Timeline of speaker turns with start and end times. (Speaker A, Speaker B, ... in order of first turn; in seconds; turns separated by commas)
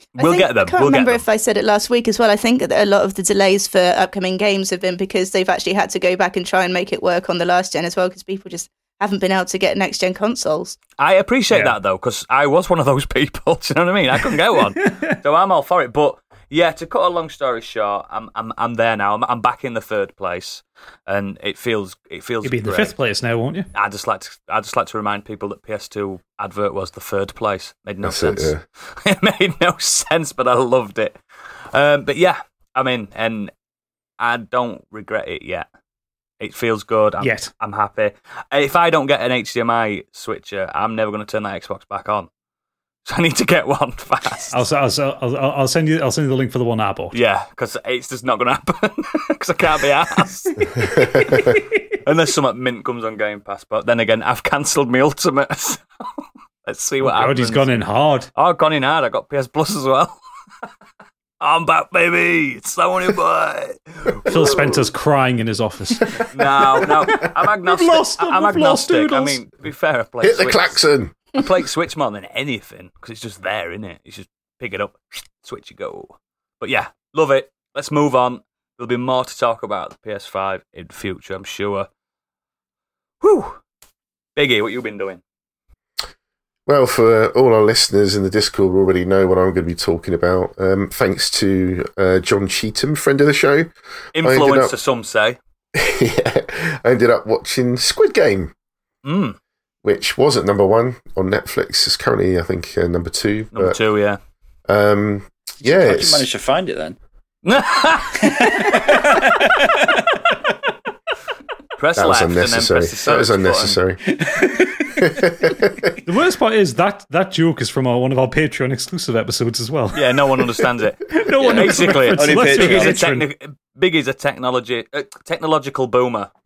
Speaker A: 0.1-1.2, Speaker B: 0.2-10.8, Speaker A: 11.0-22.9, Speaker C: 11.5-11.8, Speaker C: 14.8-15.1, Speaker C: 22.4-23.7, Speaker A: 23.7-31.2, Speaker D: 28.0-28.6, Speaker A: 31.7-33.5, Speaker A: 34.2-35.6, Speaker A: 36.4-42.3, Speaker C: 37.2-37.5, Speaker A: 43.0-44.6, Speaker C: 44.5-47.2, Speaker A: 47.1-50.5, Speaker C: 50.6-51.6, Speaker D: 50.8-51.5, Speaker A: 52.0-57.8, Speaker C: 57.0-58.3, Speaker A: 58.3-60.2, Speaker A: 61.4-64.9, Speaker C: 64.2-69.4, Speaker A: 66.3-70.8, Speaker D: 70.2-71.2, Speaker A: 71.3-81.9, Speaker A: 83.2-83.6, Speaker A: 84.3-85.2, Speaker D: 86.7-94.7, Speaker A: 94.1-95.4, Speaker D: 95.7-98.5, Speaker A: 99.0-99.4, Speaker D: 99.8-103.8, Speaker A: 103.5-104.2, Speaker D: 104.7-106.3, Speaker E: 105.6-107.0, Speaker A: 107.4-108.6, Speaker E: 108.2-110.0, Speaker A: 111.8-113.8, Speaker D: 112.0-114.1, Speaker E: 114.1-115.0, Speaker D: 115.0-115.9, Speaker C: 116.0-123.2, Speaker A: 119.9-126.3, Speaker E: 121.4-123.0